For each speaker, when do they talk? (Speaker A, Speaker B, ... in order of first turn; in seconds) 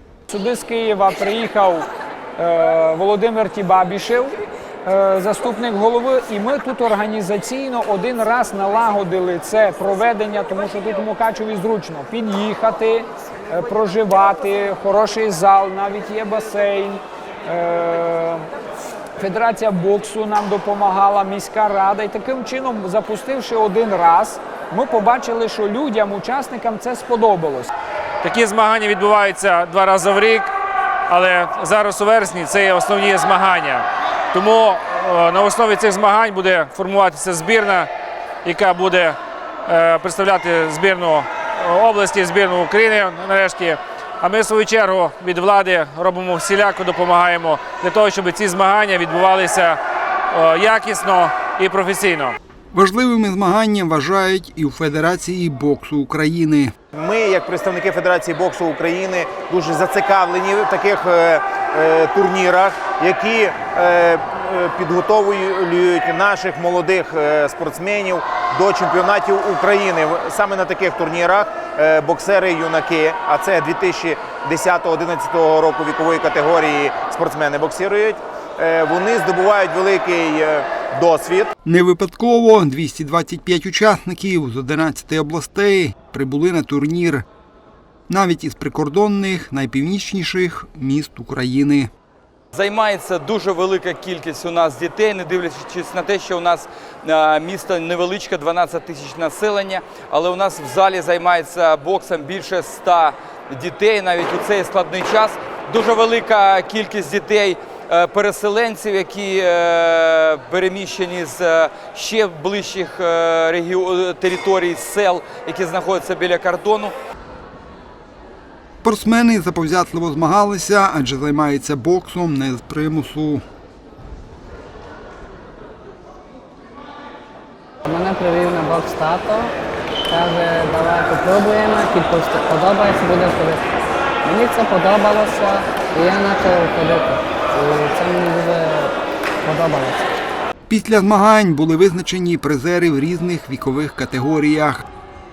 Speaker A: 0.3-18.5, 19.2-27.7
Speaker B: 28.2-30.5, 31.1-37.9, 38.4-49.8, 50.3-52.4
Speaker C: 52.7-56.7, 81.6-87.2, 88.1-91.9, 118.8-123.4, 140.7-144.8
Speaker D: 56.9-81.5
Speaker E: 92.5-116.9
Speaker F: 127.8-129.5, 130.1-133.6, 134.2-140.2